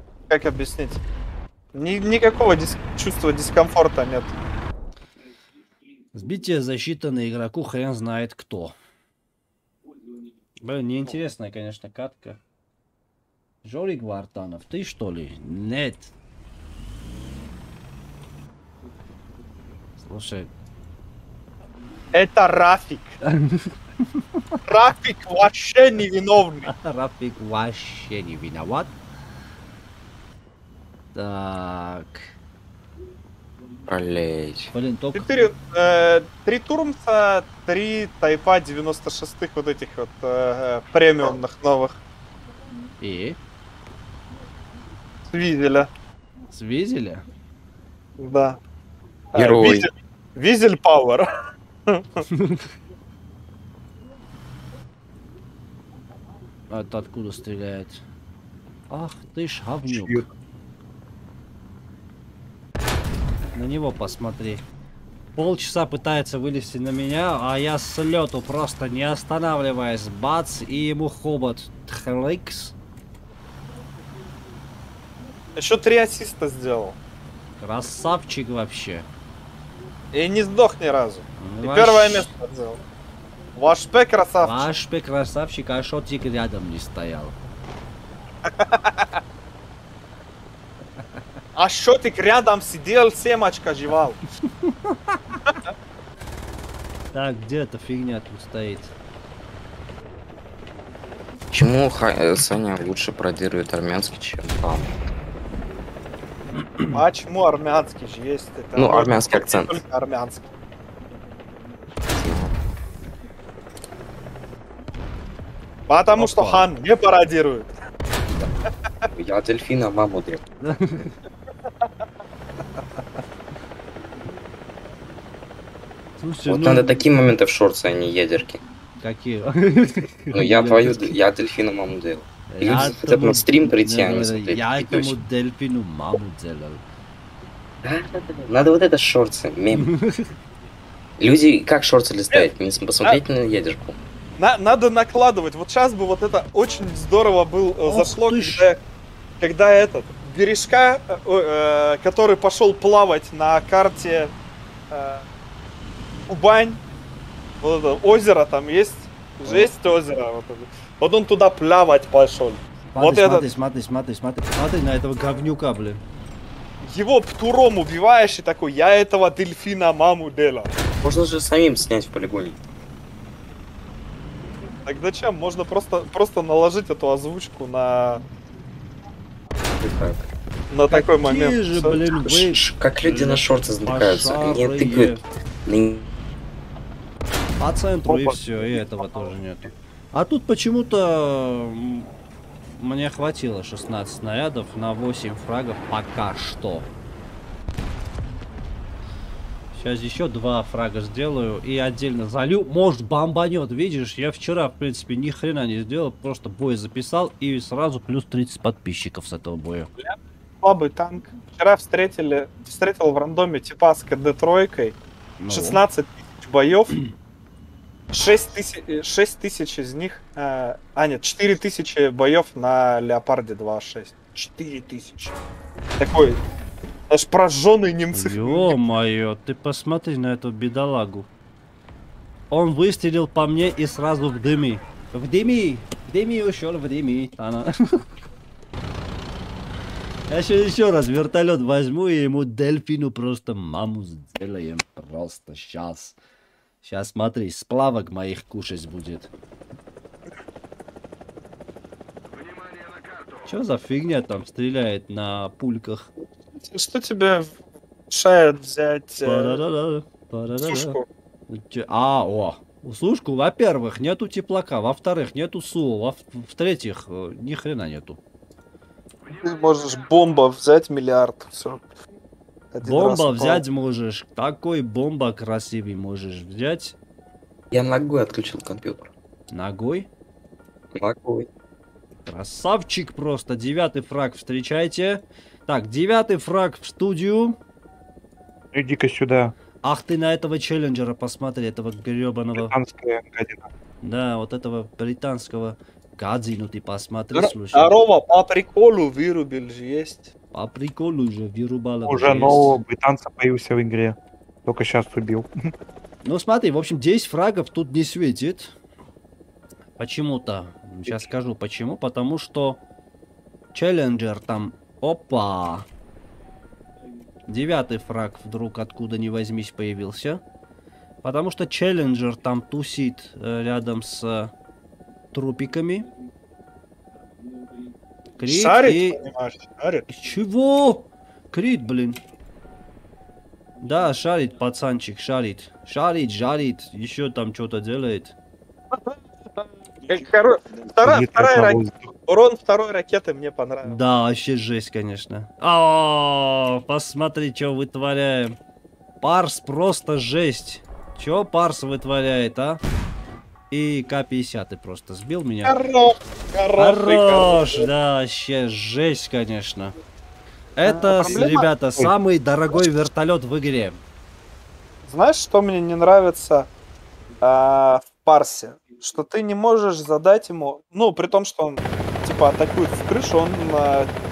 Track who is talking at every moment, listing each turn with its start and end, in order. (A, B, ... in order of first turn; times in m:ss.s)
0:00.3-0:01.0 A
0:01.7-0:04.3 A
0:06.1-0:08.7 B
0:10.6-0:12.4 B
0:13.6-0:16.1 B
0:20.0-0:20.5 B
0:22.1-0:23.2 A
0:23.2-0:24.6 B
0:24.6-0:26.7 A
0:26.6-0:28.9 B
0:31.1-0:32.3 B
0:33.9-0:34.7 C
0:34.7-0:35.5 B
0:35.1-0:42.0 A
0:43.0-0:43.4 B
0:45.3-0:45.9 A
0:46.5-0:47.2 B
0:48.2-0:48.6 A
0:49.3-0:51.3 A
0:49.4-0:49.9 C
0:51.9-0:52.2 A
0:52.3-0:52.6 B
0:56.7-0:58.0 B
0:58.9-1:00.2 B
0:59.9-1:00.2 D
1:03.5-1:04.6 B
1:05.3-1:12.7 B
1:15.6-1:17.0 A
1:17.6-1:19.1 B
1:20.1-1:22.8 A
1:21.4-1:22.3 B
1:23.5-1:24.6 A
1:24.4-1:27.4 B
1:28.4-1:29.2 A
1:31.6-1:34.2 A
1:34.4-1:35.2 B
1:35.4-1:35.7 A
1:37.1-1:38.9 B
1:41.5-1:45.0 C
1:46.9-1:50.5 A
1:48.8-1:49.8 C
1:52.1-1:52.5 C
1:55.9-1:57.7 A
1:56.1-1:56.7 B
1:59.1-2:00.4 C
2:00.6-2:01.2 B
2:06.2-2:07.0 B
2:06.4-2:08.6 C
2:09.0-2:11.2 B
2:10.3-2:15.1 C
2:12.5-2:16.8 B
2:17.8-2:19.9 C
2:19.7-2:20.3 B
2:21.2-2:24.0 C
2:24.4-2:28.8 A
2:27.8-2:28.7 B
2:29.4-2:34.3 A
2:34.9-2:35.2 A
2:36.3-2:36.8 A
2:37.6-2:43.5 A
2:39.4-2:39.7 B
2:42.9-2:46.0 B
2:46.8-2:50.7 A
2:51.0-2:52.6 C
2:54.8-2:58.2 A
2:59.6-3:00.3 C
3:00.7-3:02.2 A
3:00.9-3:05.2 B
3:02.1-3:06.0 C
3:07.6-3:12.1 B
3:08.1-3:08.4 D
3:12.8-3:16.9 B
3:19.7-3:29.9 B
3:30.0-3:35.0 A
3:35.4-3:35.8 B
3:35.5-3:37.0 A
3:38.1-3:45.3 A
3:46.0-3:46.4 A
3:47.1-3:48.8 A
3:48.1-3:51.3 B
3:52.5-3:58.0 B
4:00.3-4:06.2 B
4:06.8-4:09.3 B
4:13.4-4:16.1 B
4:16.6-4:17.6 A
4:18.1-4:19.6 A
4:19.2-4:28.2 B
4:20.6-4:21.0 A
4:29.4-4:31.8 A
4:32.7-4:33.6 A
4:32.8-4:37.0 B
4:37.7-4:39.1 C
4:39.5-4:40.1 B
4:40.9-4:41.5 C
4:42.2-4:47.6 B
4:48.7-4:49.5 D
4:49.8-4:52.7 B
4:52.6-4:53.7 D
4:54.0-4:57.9 B
4:57.3-5:00.3 A
5:00.5-5:02.8 B
5:02.0-5:05.5 D
5:06.2-5:08.7 B
5:10.0-5:12.8 B
5:13.7-5:15.8 B
5:17.5-5:20.4 B
5:21.2-5:24.5 B
5:25.3-5:26.1 B
5:28.4-5:29.2 B
5:28.4-5:30.0 A
5:30.1-5:32.2 B
5:33.8-5:38.3 B
5:38.9-5:44.0 A
5:41.0-5:42.1 D
5:43.8-5:48.6 B
5:49.2-5:52.8 B
5:53.7-5:55.8 B
5:55.6-5:57.9 A
5:56.8-5:59.9 B
6:00.8-6:04.0 B
6:00.8-6:01.7 A
6:01.2-6:02.1 D
6:05.0-6:06.7 A
6:07.4-6:14.1 A